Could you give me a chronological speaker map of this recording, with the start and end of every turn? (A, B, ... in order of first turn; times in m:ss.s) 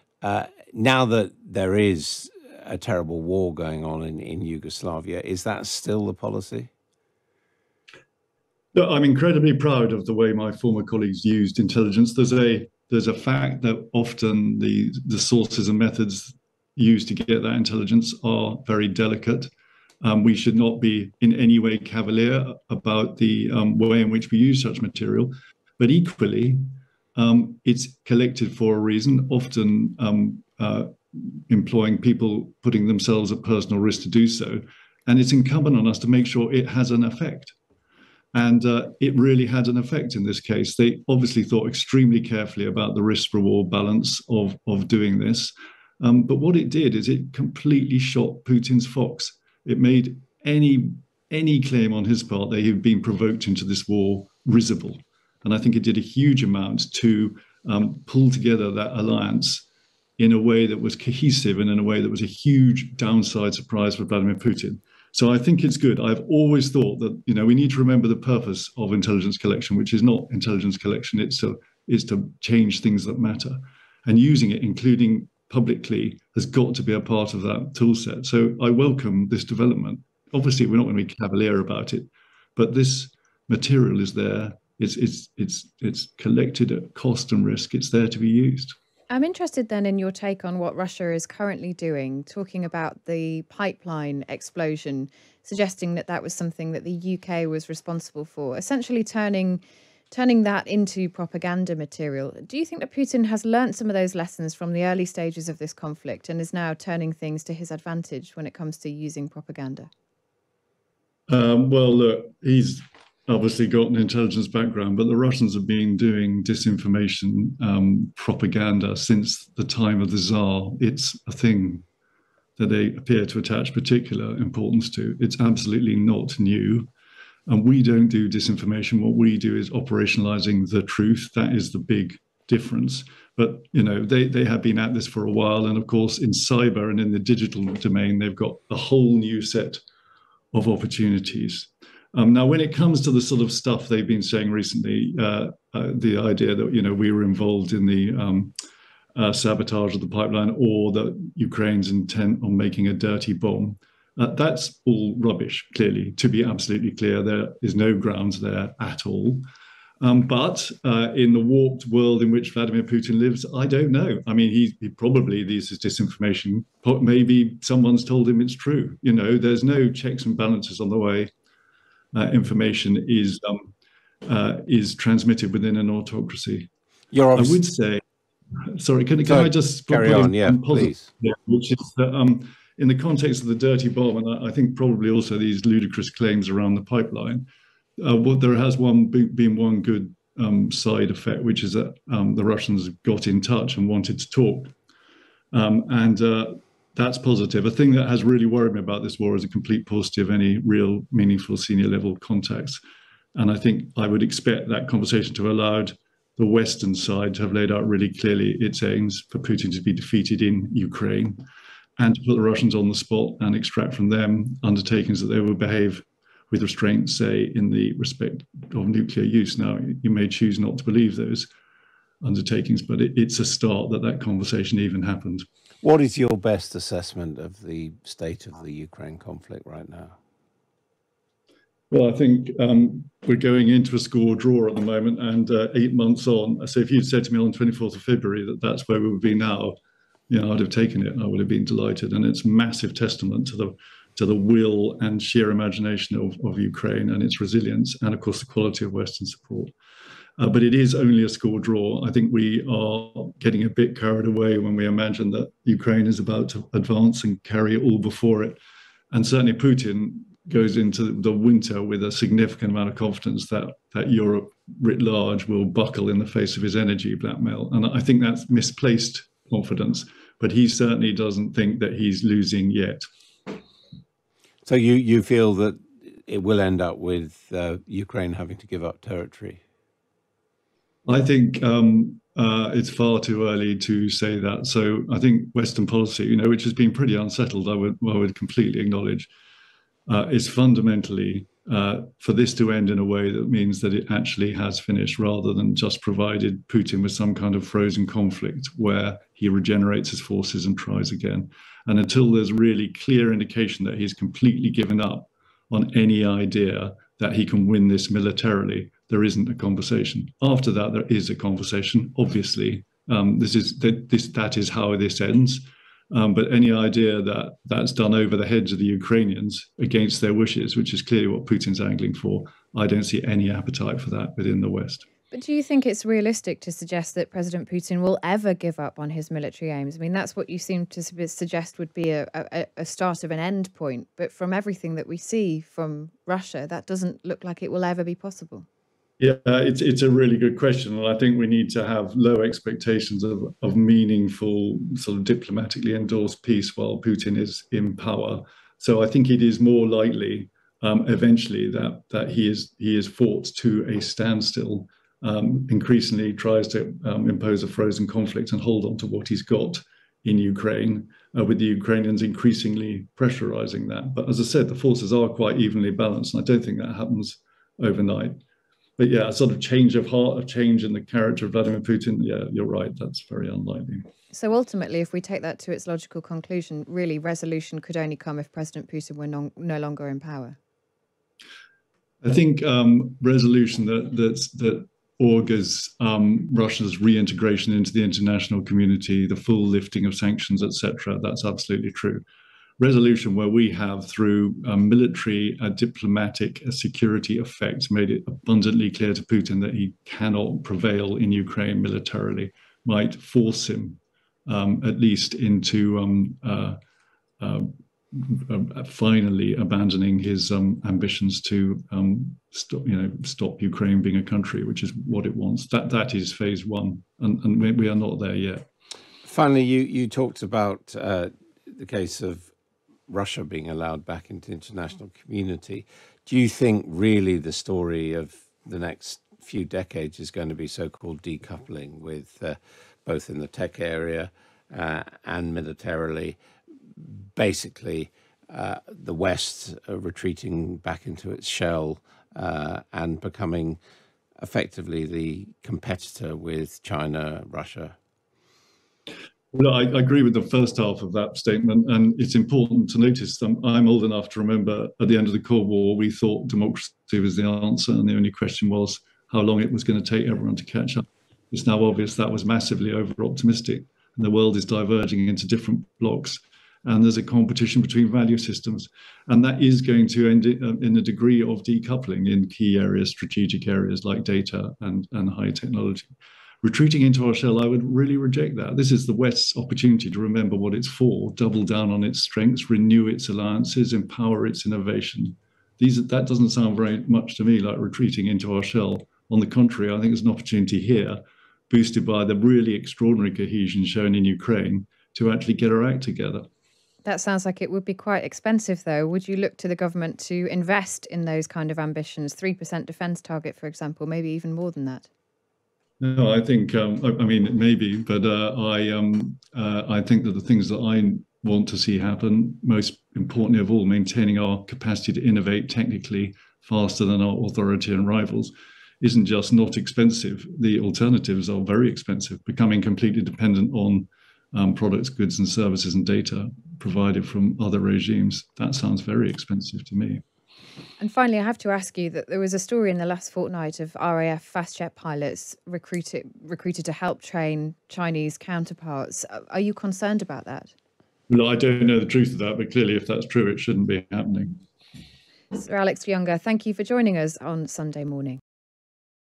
0:00.2-0:06.6 A
0:08.7-0:19.5 B
0:20.0-0:37.5 B
0:38.3-0:59.6 B
1:00.2-1:28.8 B
1:29.1-1:49.9 C
1:51.3-2:01.8 B
2:02.6-2:06.9 B
2:07.5-2:19.8 B
2:20.5-2:28.6 B
2:29.2-2:39.4 B
2:40.0-2:51.3 B
2:52.1-2:53.7 B
2:54.2-2:56.7 B
2:57.1-2:57.6 A
2:57.3-2:58.0 B
2:58.7-3:07.4 B
2:59.2-3:01.1 A
3:08.0-3:14.7 B
3:15.5-3:22.8 B
3:23.3-3:31.4 B
3:32.0-3:41.5 B
3:42.2-3:45.5 B
3:45.8-3:50.2 A
3:51.9-3:59.8 B
4:00.3-4:09.7 B
4:10.4-4:18.6 B
4:19.1-4:33.0 B
4:34.6-4:39.6 A
4:41.0-4:49.3 B
4:50.1-5:25.0 B
5:25.3-5:38.6 C
5:39.2-6:08.4 B
6:09.0-6:14.1 B
6:14.3-6:20.6 C
6:22.2-6:32.2 B
6:32.8-6:46.8 B
6:47.4-6:58.7 B
6:59.2-7:02.5 A
7:03.1-7:16.4 A
7:17.0-7:23.8 A
7:24.4-7:27.9 A
7:29.5-8:16.5 B
8:17.0-8:25.1 C
8:26.0-8:50.2 B
8:51.0-9:00.7 C
9:01.3-9:04.6 B
9:05.5-9:08.4 C